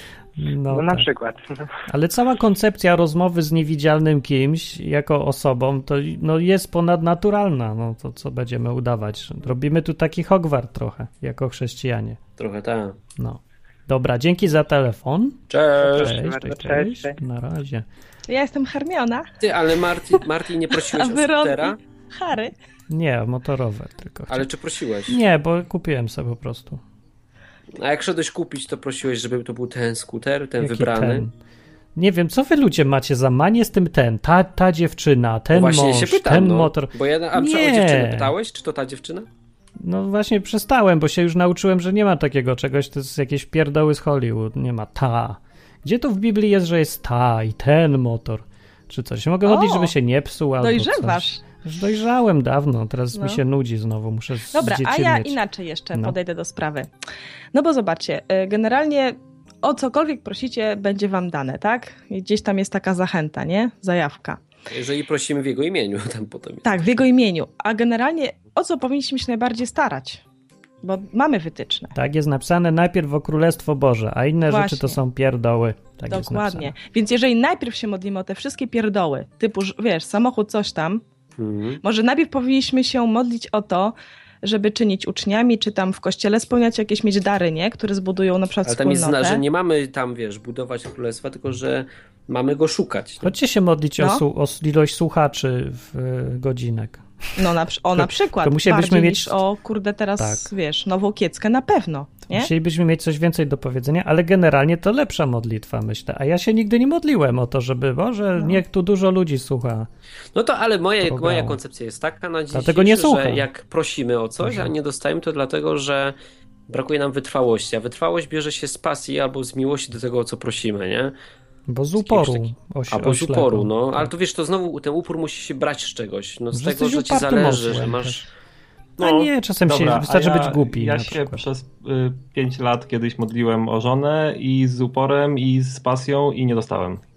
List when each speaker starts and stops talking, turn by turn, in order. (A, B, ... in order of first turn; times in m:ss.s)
0:00.4-0:01.1 A
0:00.7-0:01.7 B
0:01.9-0:12.2 A
0:12.4-0:13.0 C
0:13.2-0:17.8 A
0:15.5-0:16.1 C
0:15.8-0:17.2 B
0:18.3-0:19.3 D
0:19.4-0:21.8 C
0:20.8-0:22.5 D
0:22.9-0:24.5 A
0:24.3-0:25.2 C
0:25.1-0:26.8 A
0:27.8-0:31.3 C
0:30.6-0:31.3 A
0:32.0-0:38.3 A
0:35.5-0:39.3 C
0:39.8-0:55.4 A
0:49.4-0:49.9 D
0:50.6-0:51.4 D
0:53.1-0:53.4 D
0:54.5-0:56.9 D
0:57.5-1:04.4 D
1:04.7-1:06.7 C
1:06.6-1:10.2 D
1:10.8-1:12.0 D
1:12.0-1:16.7 A
1:14.5-1:15.0 D
1:16.1-1:21.0 D
1:21.4-1:21.8 C
1:21.8-1:29.4 D
1:28.6-1:33.3 C
1:33.2-1:39.4 A
1:37.4-1:42.5 D
1:40.2-1:40.5 A
1:42.3-1:49.9 A
1:50.4-1:56.2 C
1:51.0-1:51.6 A
1:52.5-1:53.4 A
1:54.4-1:54.7 A
1:56.7-2:01.2 C
2:01.7-2:04.1 A
2:02.0-2:08.2 C
2:06.5-2:08.3 A
2:09.0-2:11.4 A
2:09.0-2:17.0 E